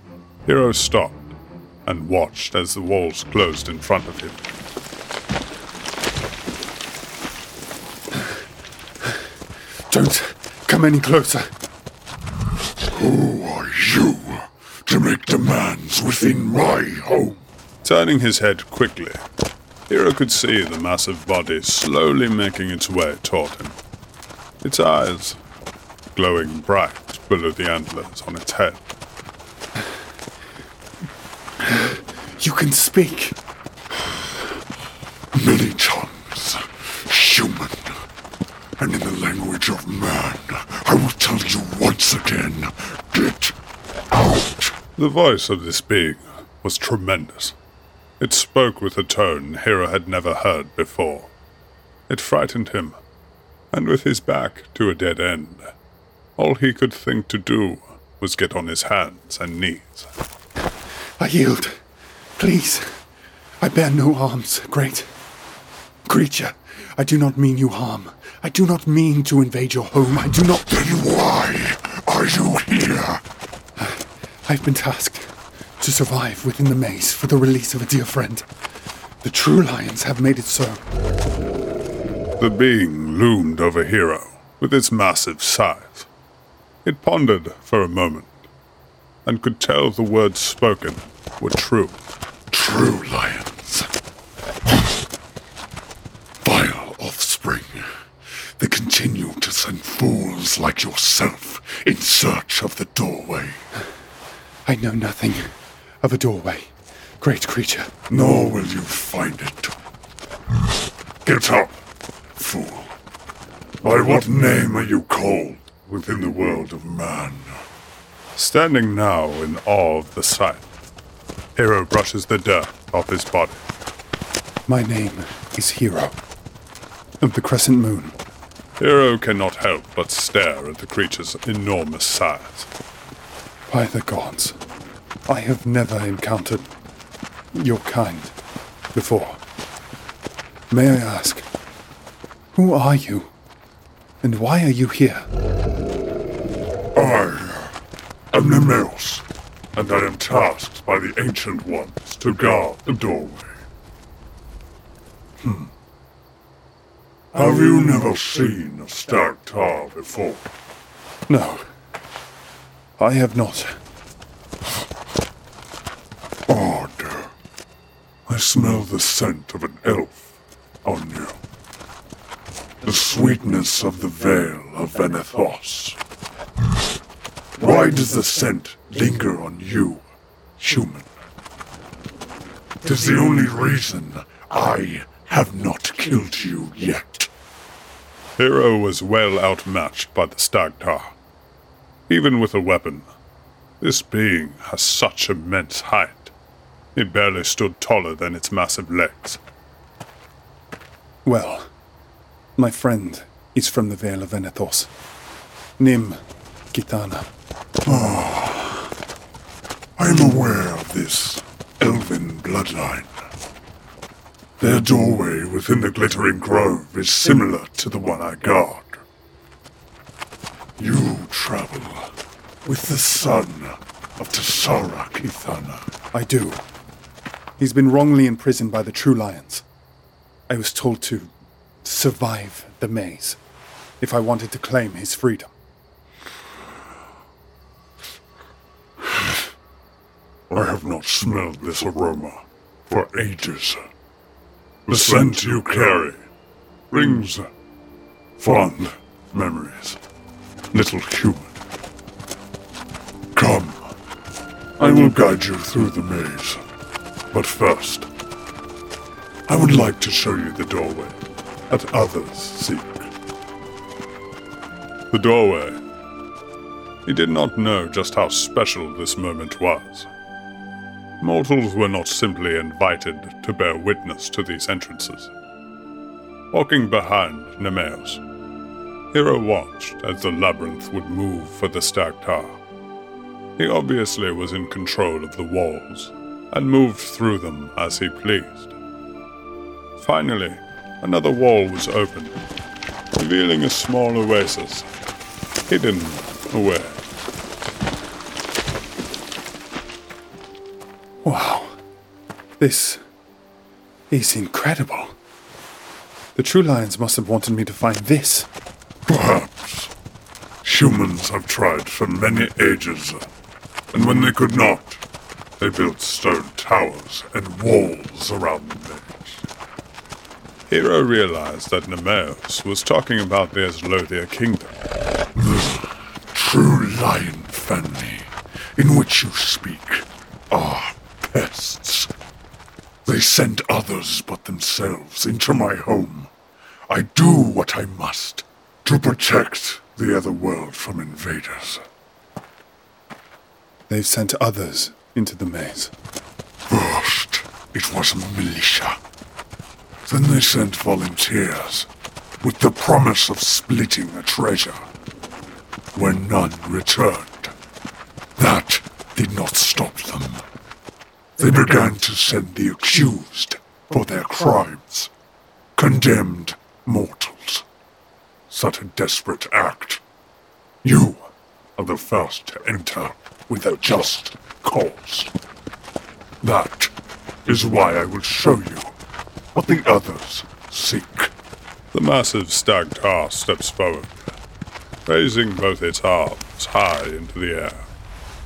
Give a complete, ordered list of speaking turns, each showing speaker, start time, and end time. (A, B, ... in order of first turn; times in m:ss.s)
0:00.5-0:01.3 A
0:01.8-0:04.4 A
0:09.9-0:11.5 B
0:12.9-0:17.4 C
0:17.8-0:19.2 A
0:19.9-0:23.8 A
0:24.6-0:25.4 A
0:26.2-0:28.8 A
0:31.6-0:33.4 B
0:35.3-0:37.9 C
0:38.8-0:43.6 C
0:44.1-0:44.8 C
0:45.0-0:47.6 A
0:48.2-0:51.3 A
0:52.1-0:53.0 A
0:53.7-0:55.7 A
0:56.4-1:00.1 A
1:01.2-1:01.8 B
1:02.4-1:02.9 B
1:03.6-1:05.1 B
1:06.1-1:10.8 B
1:10.7-1:13.2 C
1:13.8-1:18.5 B
1:19.2-1:20.8 B
1:22.4-1:26.1 A
1:26.8-1:28.5 A
1:29.3-1:32.0 A
1:32.5-1:33.9 C
1:36.4-1:37.9 C
1:38.6-1:43.6 C
1:44.7-1:47.9 B
1:48.1-1:49.8 C
1:51.2-1:51.8 C
1:52.4-1:53.0 C
1:53.8-1:57.6 C
1:58.4-2:00.7 A
2:01.6-2:03.6 A
2:04.7-2:06.2 B
2:07.2-2:08.2 B
2:08.8-2:12.7 A
2:13.7-2:14.6 B
2:15.3-2:16.7 B
2:17.5-2:18.3 B
2:18.9-2:19.4 B
2:20.7-2:21.5 B
2:22.6-2:23.3 B
2:24.2-2:25.3 B
2:27.0-2:27.8 C
2:28.3-2:29.2 C
2:29.8-2:33.5 C
2:37.3-2:40.4 C
2:41.3-2:41.7 B
2:43.0-2:43.8 B
2:46.5-2:47.3 C
2:48.3-2:50.3 C
2:50.8-2:51.4 C
2:52.8-2:56.0 C
2:57.6-3:00.0 C
3:00.6-3:01.1 C
3:02.8-3:07.3 C
3:08.4-3:11.1 A
3:12.1-3:13.1 A
3:13.8-3:16.3 A
3:17.0-3:19.4 A
3:21.2-3:21.7 B
3:22.6-3:24.9 B
3:25.8-3:26.2 B
3:26.7-3:27.3 B
3:27.9-3:28.8 C
3:30.0-3:33.1 C
3:34.6-3:39.0 C
3:40.8-3:42.1 C
3:42.6-3:45.8 C
3:46.1-3:46.6 B
3:47.6-3:49.6 B
3:50.5-3:51.3 B
3:51.8-3:53.4 B
3:54.0-3:55.5 B
4:00.5-4:03.8 C
4:04.9-4:06.2 A
4:04.9-4:06.0 C
4:06.9-4:07.4 C
4:07.0-4:07.3 A
4:08.4-4:08.9 C
4:09.4-4:09.6 A
4:09.6-4:10.0 C
4:10.7-4:11.5 C
4:13.4-4:13.8 C
4:14.8-4:16.6 C
4:17.3-4:18.1 C
4:19.5-4:21.2 C
4:21.7-4:23.1 C
4:25.1-4:25.8 A
4:27.1-4:30.1 A
4:31.2-4:35.3 A
4:36.5-4:38.2 A
4:39.1-4:42.6 A
4:43.6-4:48.7 A
4:50.0-4:52.4 A
4:53.2-4:54.9 A
4:55.7-4:57.0 A
5:01.2-5:01.8 B
5:02.6-5:03.0 B
5:04.1-5:05.2 B
5:06.4-5:08.5 B
5:09.1-5:09.9 C
5:10.6-5:13.2 C
5:13.9-5:15.0 C
5:15.6-5:19.4 C
5:20.7-5:24.8 A
5:25.4-5:32.1 C
5:33.1-5:36.3 C
5:36.9-5:41.8 C
5:43.9-5:45.9 B
5:46.7-5:49.0 C
5:50.1-5:51.9 C
5:52.4-5:54.8 C
5:55.9-5:57.5 C
5:58.4-6:00.4 C
6:01.4-6:05.1 C
6:05.8-6:07.6 C
6:08.5-6:10.0 C
6:10.8-6:15.3 C
6:16.4-6:16.9 C
6:17.4-6:19.0 C
6:19.6-6:21.3 C
6:21.9-6:24.2 A
6:25.1-6:27.9 A